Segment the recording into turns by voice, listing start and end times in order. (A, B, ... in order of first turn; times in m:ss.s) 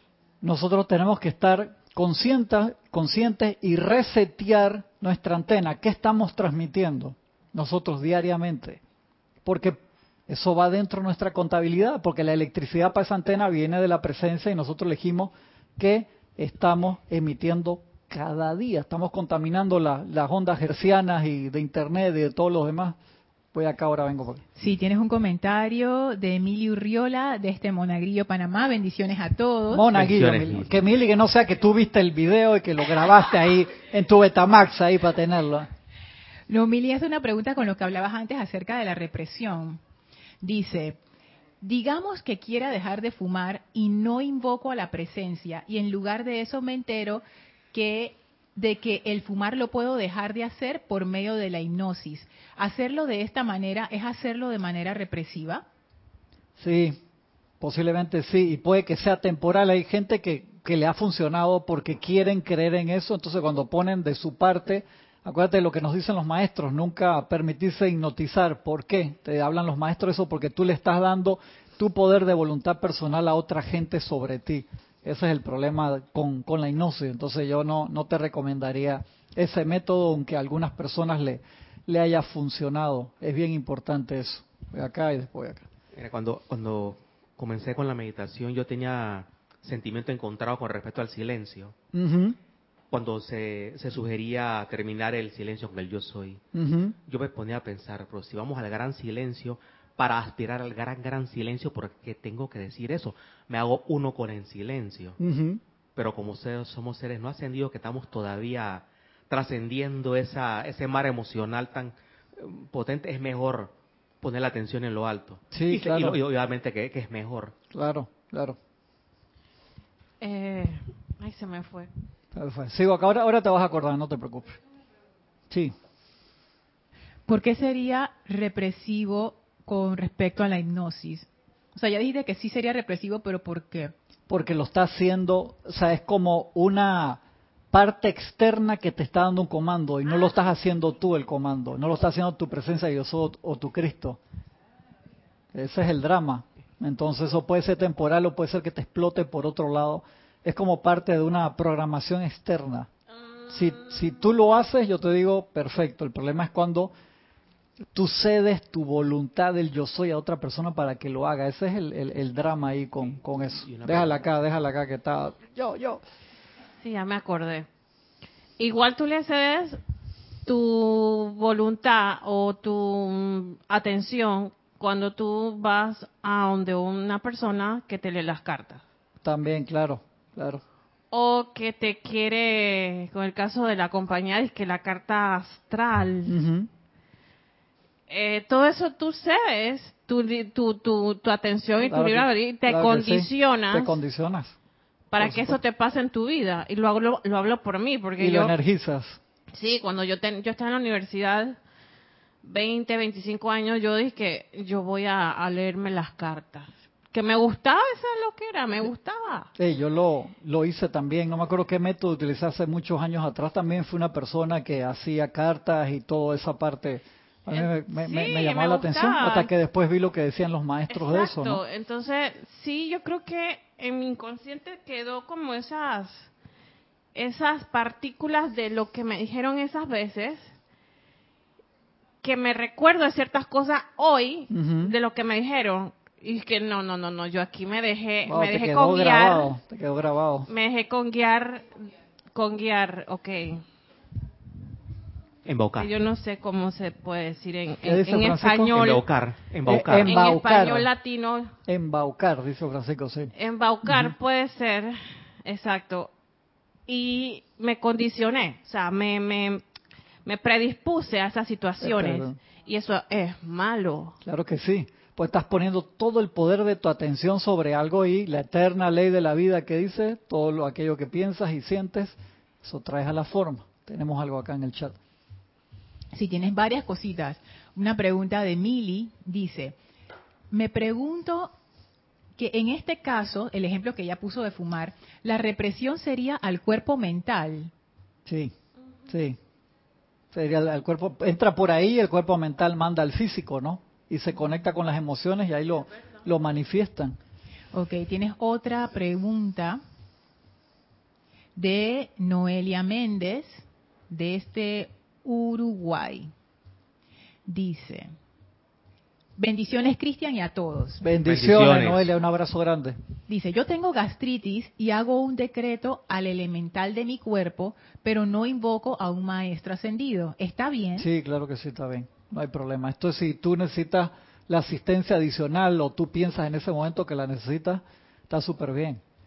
0:00.4-0:08.8 A
0:09.4-0:23.0 A
0:23.5-0:24.4 A
0:24.6-0:29.9 B
0:29.7-0:35.7 A
0:29.9-0:30.8 C
0:36.5-0:39.8 B
0:40.4-0:41.0 B
0:41.6-0:55.6 B
0:56.6-0:57.0 A
0:57.6-1:25.6 A
1:25.9-1:31.7 C
1:31.9-1:32.4 A
1:32.9-1:36.4 C
1:36.5-1:36.9 A
1:37.0-1:45.2 C
1:45.2-1:45.6 A
1:46.0-1:57.5 C
1:55.5-1:56.2 A
1:57.7-1:58.6 A
2:00.2-2:01.9 D
2:02.3-2:04.6 A
2:07.3-2:13.9 B
2:14.3-2:17.2 A
2:17.7-2:24.2 A
2:25.5-2:32.9 A
2:33.5-2:36.9 A
2:37.9-2:46.0 A
2:43.5-2:44.2 C
2:46.8-2:47.7 D
2:48.6-2:49.8 D
2:50.4-2:58.8 D
2:59.2-3:00.6 A
3:01.1-3:06.3 D
3:06.2-3:06.7 A
3:08.1-3:14.0 D
3:11.8-3:14.6 A
3:15.1-3:18.5 D
3:15.2-3:15.6 A
3:18.2-3:19.2 A
3:19.5-3:21.6 D
3:22.4-3:29.5 D
3:29.6-3:41.6 A
3:37.5-3:39.5 D
3:40.9-3:46.3 D
3:47.1-3:50.5 D
3:52.2-3:59.5 D
3:54.5-3:54.9 A
3:58.3-4:00.5 A
4:00.5-4:03.6 D
4:05.4-4:05.9 C
4:05.8-4:09.0 D
4:07.8-4:08.7 A
4:08.7-4:10.2 C
4:09.6-4:10.9 A
4:10.0-4:11.5 D
4:11.7-4:13.3 A
4:13.3-4:16.1 D
4:13.8-4:14.1 A
4:16.9-4:19.6 D
4:20.2-4:24.2 D
4:21.8-4:22.4 A
4:24.2-4:35.0 A
4:36.1-4:39.8 B
4:40.5-4:41.5 B
4:42.4-4:47.7 B
4:48.2-4:48.5 A
4:49.1-4:49.4 A
4:50.3-4:57.2 A
4:57.7-4:59.8 B
5:01.6-5:06.3 B
5:07.4-5:08.1 B
5:09.4-5:11.0 B
5:11.0-5:13.0 A
5:11.2-5:12.1 C
5:13.3-5:21.1 B
5:21.0-5:29.0 A